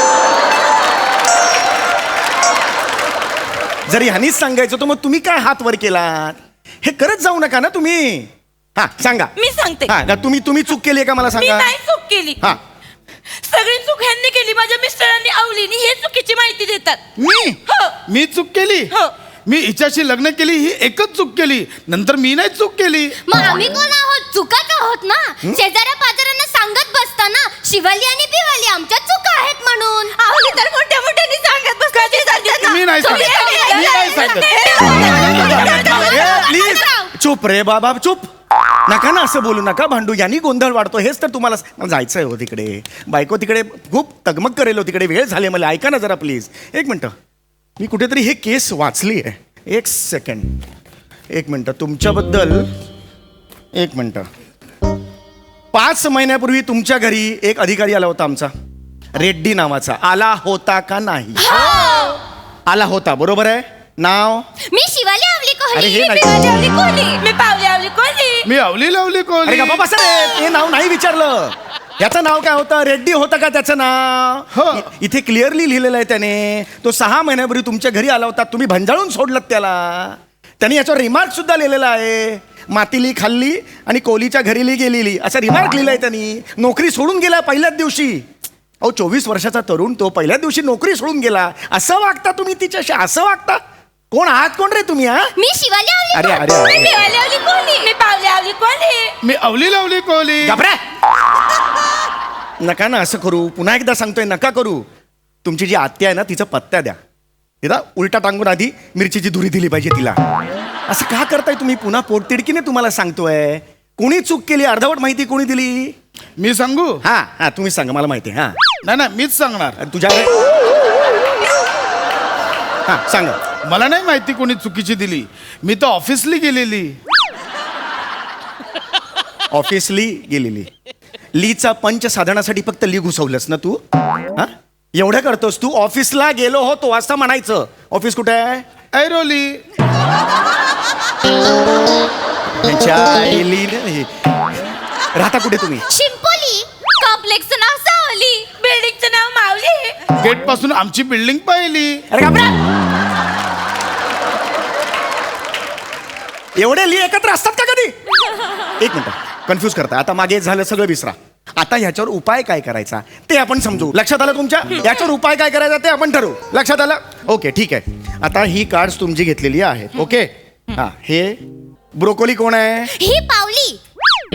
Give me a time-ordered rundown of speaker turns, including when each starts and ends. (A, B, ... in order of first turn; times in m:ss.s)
0:03.9-0:09.3 A
0:09.4-0:09.9 B
0:09.9-0:11.7 A
0:11.3-0:12.4 B
0:13.4-0:17.0 B
0:17.2-0:18.9 C
0:17.7-0:18.0 B
0:19.4-0:23.2 C
0:23.2-0:30.2 D
0:30.2-0:36.6 B
0:32.4-0:36.1 C
0:32.9-0:34.4 D
0:35.1-0:37.1 D
0:35.6-0:38.3 A
0:38.9-0:47.1 A
0:47.8-0:50.5 A
0:51.3-0:52.7 A
0:53.8-0:54.3 A
0:55.7-0:58.5 A
0:59.2-1:01.5 A
1:01.4-1:02.2 D
1:02.7-1:04.4 A
1:04.7-1:07.2 D
1:05.7-1:06.7 A
1:07.2-1:08.4 B
1:08.4-1:09.8 C
1:09.4-1:28.2 A
1:14.5-1:14.9 C
1:28.8-1:33.6 A
1:34.1-1:35.3 A
1:35.4-1:37.4 D
1:36.1-1:37.2 A
1:37.2-1:39.1 B
1:39.2-1:40.6 C
1:40.4-1:40.8 A
1:42.6-1:44.8 A
1:45.4-1:47.0 A
1:47.6-1:50.2 A
1:50.9-1:55.9 A
1:56.4-1:57.0 C
1:57.0-1:58.6 A
1:58.8-1:59.8 C
1:59.8-2:00.4 A
2:02.9-2:03.4 A
2:03.6-2:07.0 C
2:09.5-2:10.7 A
2:11.3-2:13.8 A
2:14.4-2:18.6 A
2:18.9-2:19.6 C
2:22.6-2:24.1 A
2:25.2-2:25.8 A
2:25.9-2:28.4 D
2:28.5-2:30.0 B
2:30.2-2:32.0 C
2:32.1-2:32.6 A
2:36.6-2:37.9 A
2:38.8-2:51.4 A
2:51.9-2:52.9 A
2:52.9-2:53.8 D